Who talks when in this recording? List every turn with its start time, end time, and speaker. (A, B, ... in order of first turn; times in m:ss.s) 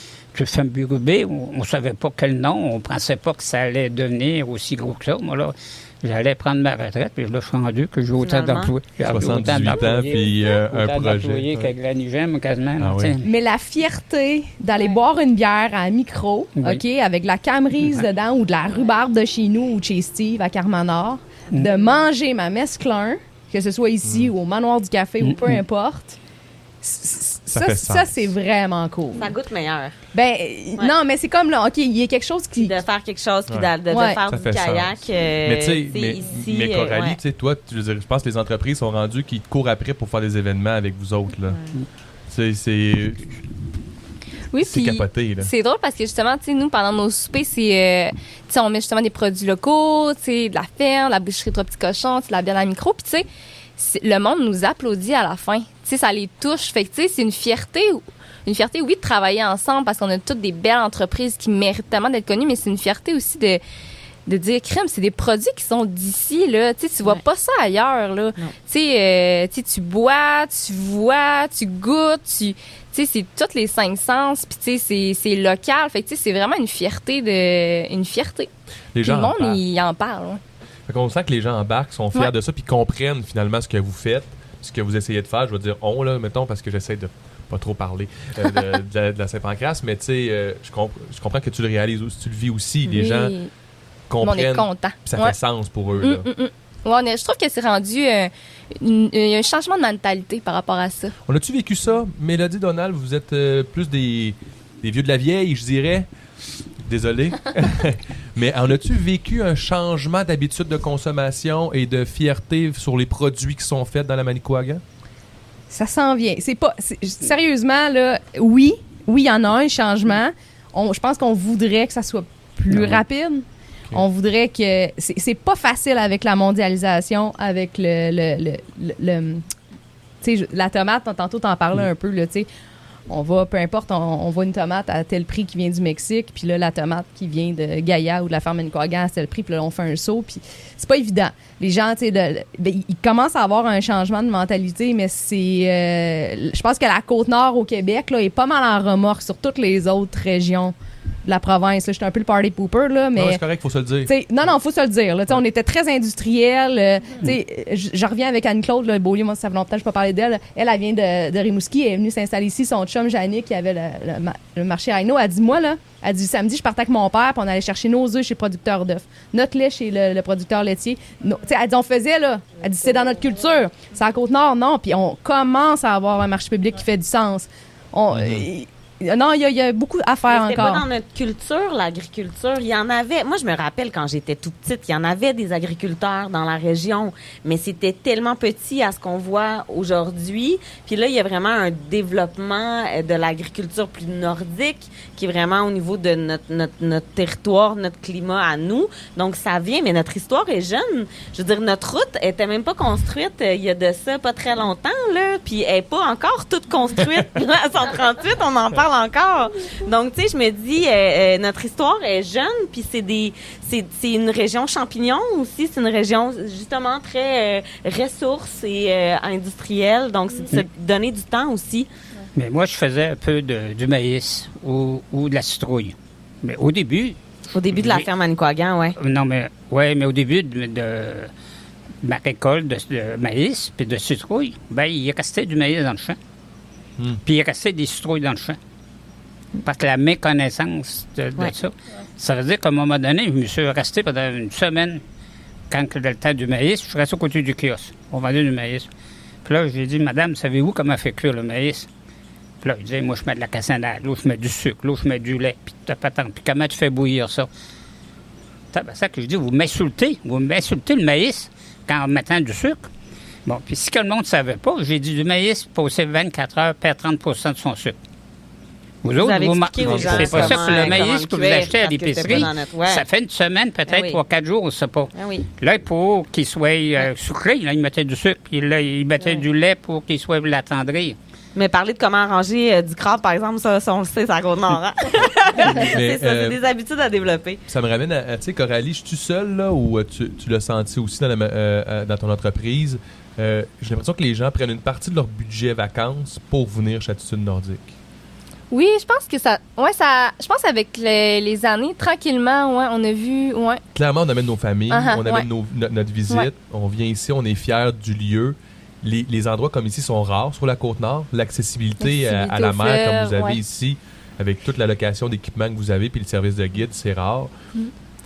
0:00.4-0:13.3 A
0:08.2-0:08.7 B
0:09.0-0:11.7 C
0:12.8-0:13.2 C
0:13.2-0:26.2 D
0:24.0-0:24.3 C
0:25.2-0:25.6 A
0:26.8-0:29.3 D
0:27.5-0:28.3 C
0:29.2-0:30.0 B
0:30.1-0:32.8 D
0:32.6-0:37.2 B
0:33.9-0:34.2 D
0:34.3-0:41.6 C
0:42.3-0:43.4 C
0:44.5-0:53.2 E
0:44.6-0:45.5 C
0:53.8-1:03.6 E
1:04.3-1:18.5 E
1:18.9-1:19.6 C
1:19.0-1:20.4 E
1:20.9-1:33.4 C
1:32.9-1:33.5 E
1:34.1-1:36.3 C
1:34.2-1:35.4 E
1:36.0-1:41.2 E
1:41.3-1:46.1 C
1:46.8-1:54.8 C
1:55.7-2:09.4 D
2:02.7-2:03.0 C
2:10.2-2:12.5 D
2:13.1-2:33.4 D
2:33.2-2:34.1 C
2:34.0-3:00.8 D
2:58.1-2:58.5 C
3:00.3-3:41.9 B
3:42.4-3:48.1 A
3:47.5-3:49.0 B
3:49.0-3:51.3 A
3:52.0-3:56.2 A
3:57.2-3:58.6 A
3:59.6-4:05.0 A
4:05.7-4:08.9 A
4:09.4-4:11.9 A
4:12.6-4:17.5 A
4:18.7-4:22.8 A
4:23.5-4:28.0 A
4:29.0-4:41.2 A
4:29.2-4:33.0 B
4:29.8-4:30.8 C
4:33.9-4:34.2 B
4:35.2-4:35.5 B
4:39.2-4:39.5 B
4:41.6-4:47.6 B
4:45.7-4:46.6 C
4:47.7-4:57.9 C
4:58.7-5:03.8 E
5:04.0-5:17.5 C
5:05.0-5:05.5 E
5:12.0-5:13.6 E